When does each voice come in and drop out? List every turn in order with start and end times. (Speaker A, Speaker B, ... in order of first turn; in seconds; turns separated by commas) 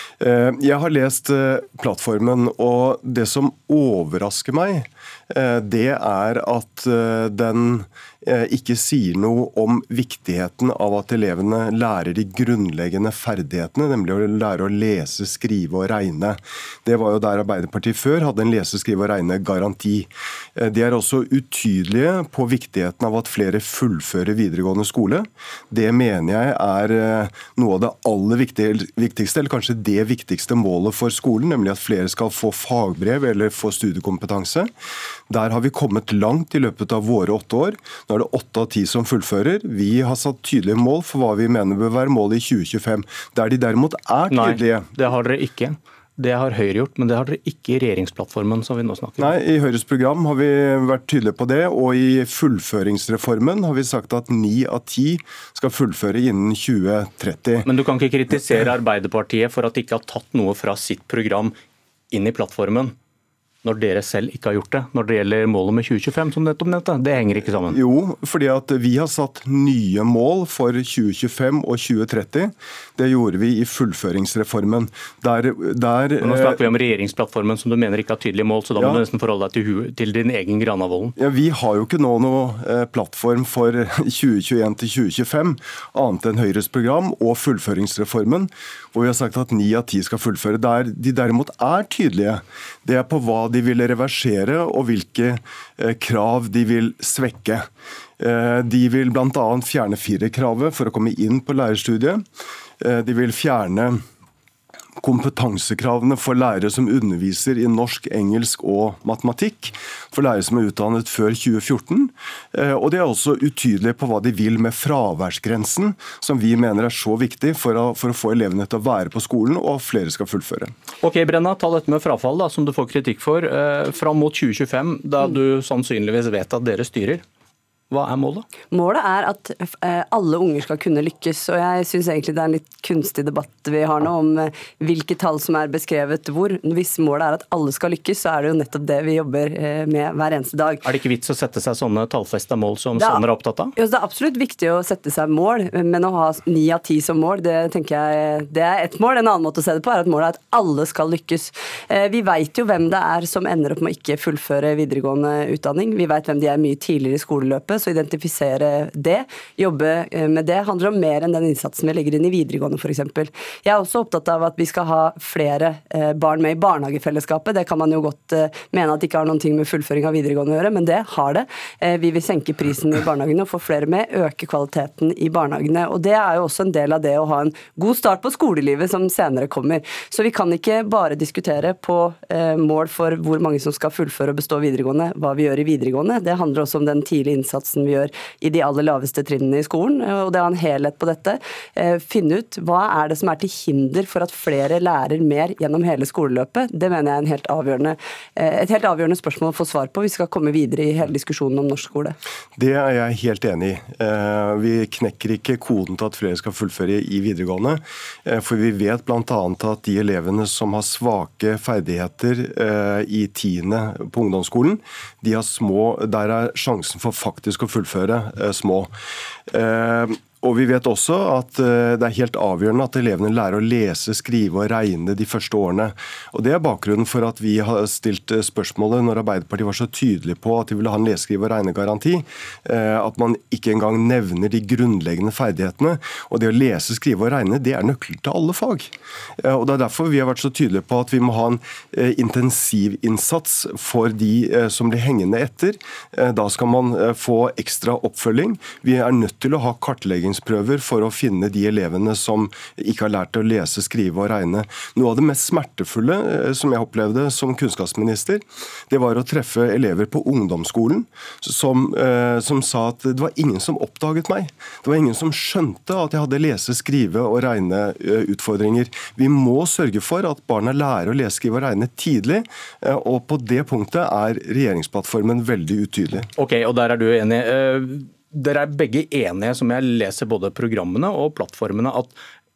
Speaker A: 0.2-34.7, Speaker A: 35.3-44.9, Speaker B: 44.3-49.3, Speaker A: 49.2-57.7, Speaker B: 57.6-61.5, Speaker B: 62.1-62.9, Speaker B: 63.6-67.8, Speaker A: 67.7-76.6, Speaker B: 76.2-81.1, Speaker A: 78.8-79.0, Speaker A: 81.2-97.7, Speaker A: 98.2-102.2, Speaker A: 102.8-104.0, Speaker A: 105.0-120.7, Speaker B: 121.0-127.2, Speaker B: 127.9-128.5, Speaker C: 128.7-140.9, Speaker B: 140.8-143.7, Speaker C: 143.0-143.2, Speaker C: 143.8-202.2, Speaker A: 202.6-218.9, Speaker A: 219.5-276.3, Speaker B: 276.4-282.2